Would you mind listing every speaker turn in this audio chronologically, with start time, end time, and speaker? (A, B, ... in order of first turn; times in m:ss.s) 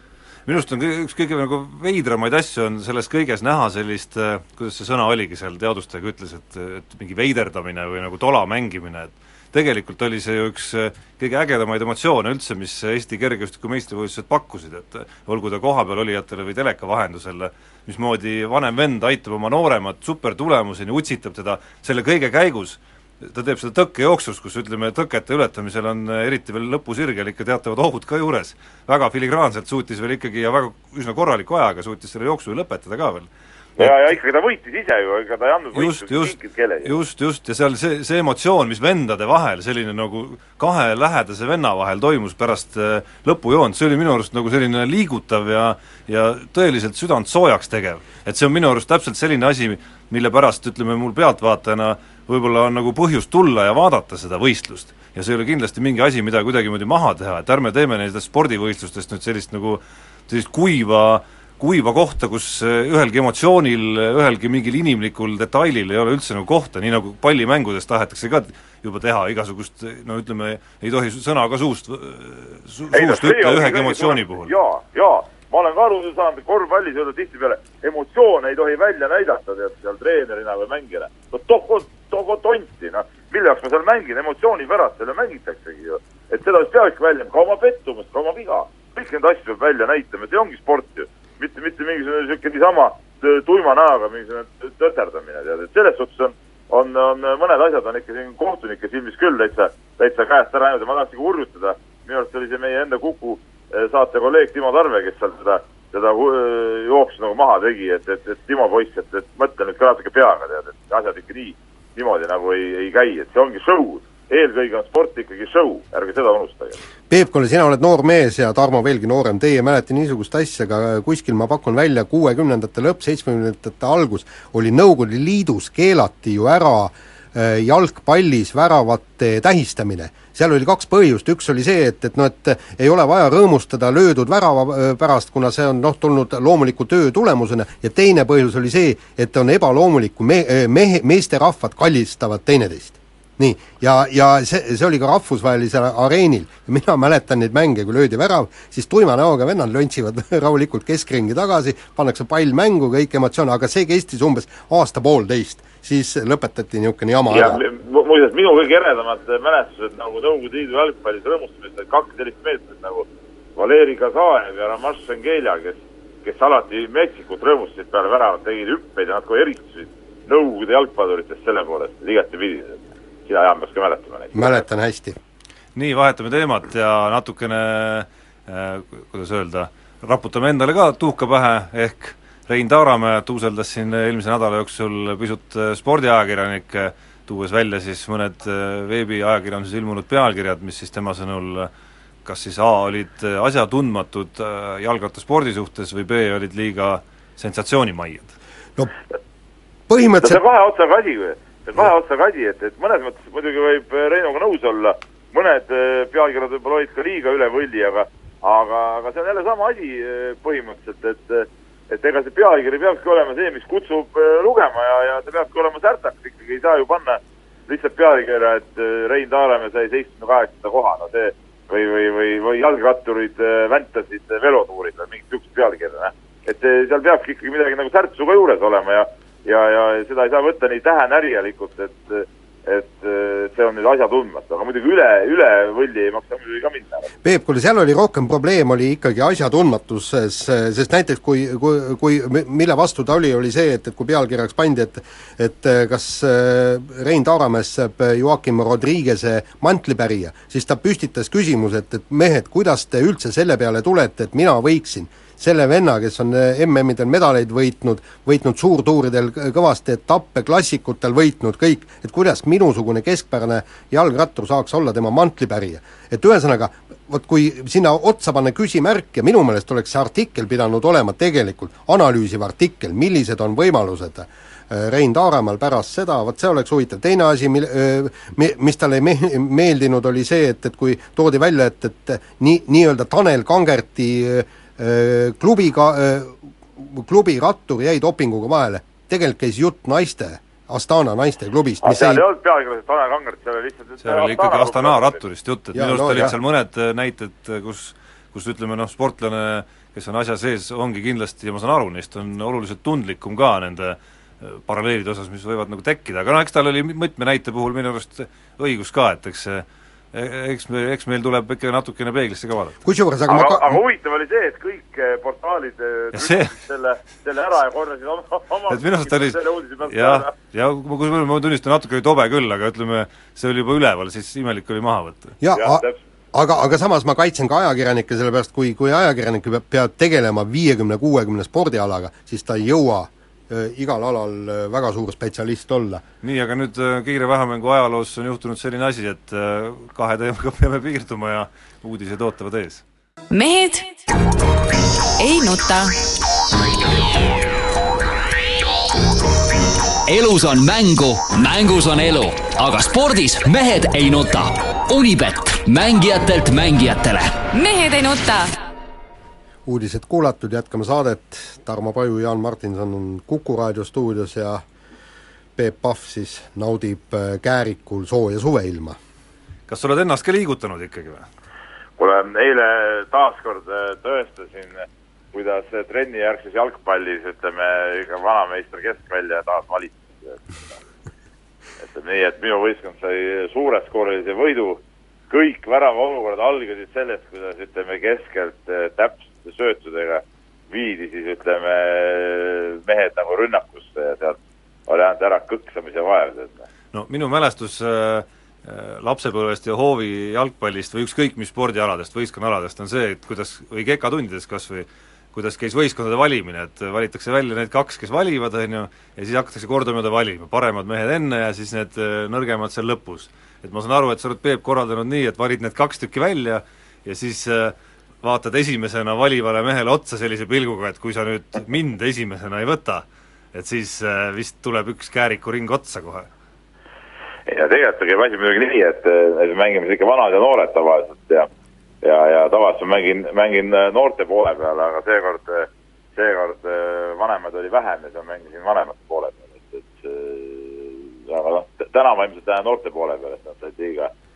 0:00.4-0:34.1 A
0:33.8-0:37.0 B
0:35.7-1:14.5 A
1:12.9-1:56.8 B
1:57.1-2:37.6 C
2:37.3-2:54.6 B
2:54.3-2:55.2 C
2:55.7-3:11.7 A
3:12.2-3:18.3 A
3:19.9-3:20.4 C
3:20.0-3:57.1 B
3:57.2-4:52.2 C
4:51.8-4:55.2 B
4:54.0-5:12.8 A
4:55.7-4:56.4 C
5:12.8-5:13.8 C
5:13.3-5:20.3 B
5:16.1-5:16.5 A
5:18.7-5:25.4 A
5:25.4-5:36.0 C
5:25.5-5:26.0 B
5:36.2-5:42.8 A
5:43.3-5:44.0 D
5:45.2-5:46.0 D
5:50.1-5:57.4 E
5:57.5-5:58.6 D
5:59.6-6:04.6 C
6:05.6-6:09.0 C
6:09.7-6:11.2 A
6:12.0-6:20.8 B
6:21.8-6:36.6 B
6:36.9-7:06.3 A
7:07.5-7:11.5 B
7:12.0-7:24.1 B